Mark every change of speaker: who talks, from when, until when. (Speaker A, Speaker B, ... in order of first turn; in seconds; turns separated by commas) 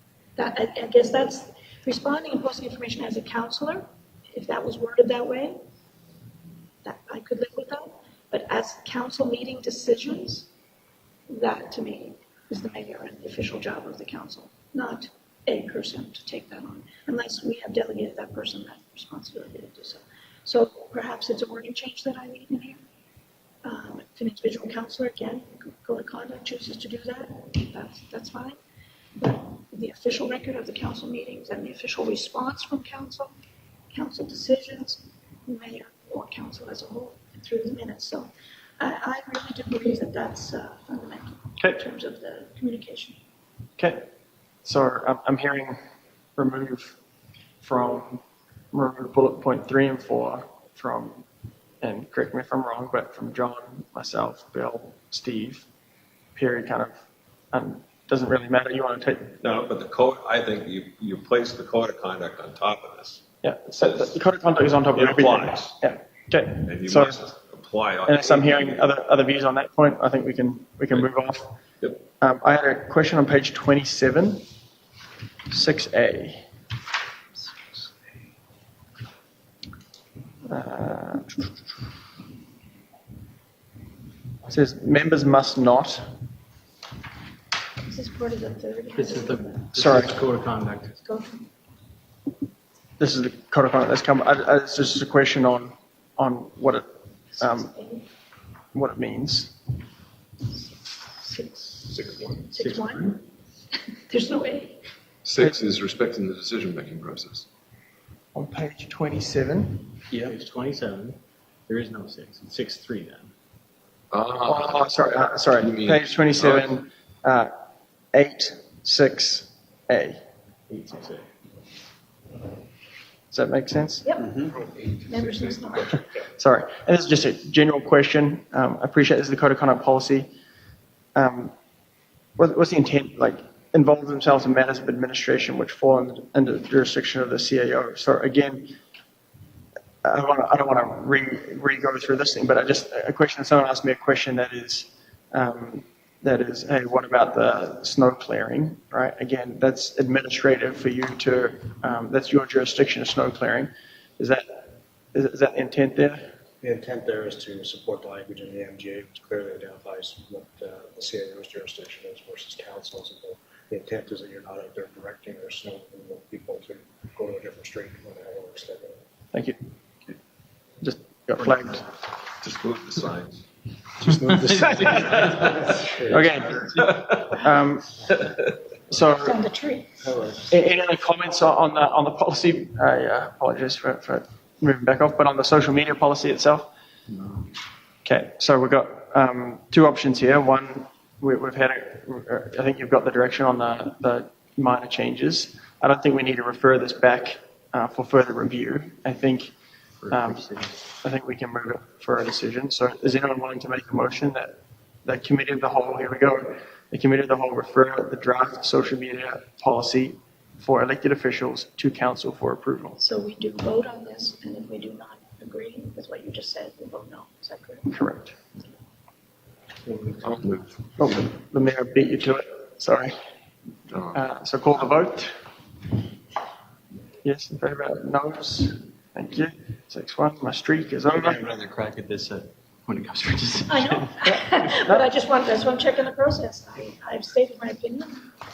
Speaker A: 0.4-5.6, Speaker A: 6.8-10.5, Speaker A: 11.3-22.8, Speaker A: 23.6-28.6, Speaker A: 29.2-33.3, Speaker A: 33.9-43.2, Speaker B: 43.8-44.0, Speaker B: 44.6-45.8, Speaker B: 46.4-47.0, Speaker B: 47.6-51.2, Speaker B: 51.8-55.7, Speaker B: 56.4-57.0, Speaker B: 57.5-59.5, Speaker C: 59.4-63.2, Speaker B: 63.4-67.2, Speaker C: 63.8-64.2, Speaker C: 64.9-65.8, Speaker C: 66.6-68.9, Speaker B: 68.0-74.4, Speaker B: 75.5-76.5, Speaker B: 80.5-81.4, Speaker B: 84.5-86.1, Speaker A: 87.8-89.8, Speaker D: 88.9-91.0, Speaker B: 89.7-90.2, Speaker A: 91.0-91.5, Speaker B: 93.0-96.9, Speaker A: 97.4-98.1, Speaker B: 97.4-97.7, Speaker B: 98.7-99.6, Speaker A: 101.2-103.2, Speaker E: 101.9-102.5, Speaker D: 102.5-103.2, Speaker A: 104.0-104.8, Speaker E: 105.2-107.5, Speaker B: 108.3-110.0, Speaker D: 110.1-113.3, Speaker E: 114.1-115.0, Speaker B: 114.5-117.5, Speaker E: 115.6-116.7, Speaker B: 118.1-120.2, Speaker D: 120.7-121.3, Speaker B: 123.3-124.0, Speaker A: 124.0-126.0, Speaker B: 126.4-130.3, Speaker B: 131.1-131.5, Speaker B: 132.4-138.8, Speaker B: 140.0-156.3, Speaker F: 156.6-169.0, Speaker B: 169.3-169.6, Speaker B: 170.8-171.8, Speaker C: 172.7-173.3, Speaker F: 174.0-175.9, Speaker B: 176.0-178.0, Speaker B: 178.9-179.4, Speaker A: 179.2-180.1, Speaker F: 180.0-180.5, Speaker B: 180.5-186.7, Speaker D: 187.1-187.4, Speaker B: 188.0-199.5, Speaker D: 200.0-200.8, Speaker B: 200.1-213.0, Speaker A: 213.0-218.0, Speaker B: 217.9-218.3, Speaker E: 220.1-220.8, Speaker B: 221.0-223.2, Speaker E: 223.9-224.2, Speaker B: 224.1-225.3, Speaker B: 227.2-231.4, Speaker D: 231.2-234.2, Speaker A: 233.7-238.3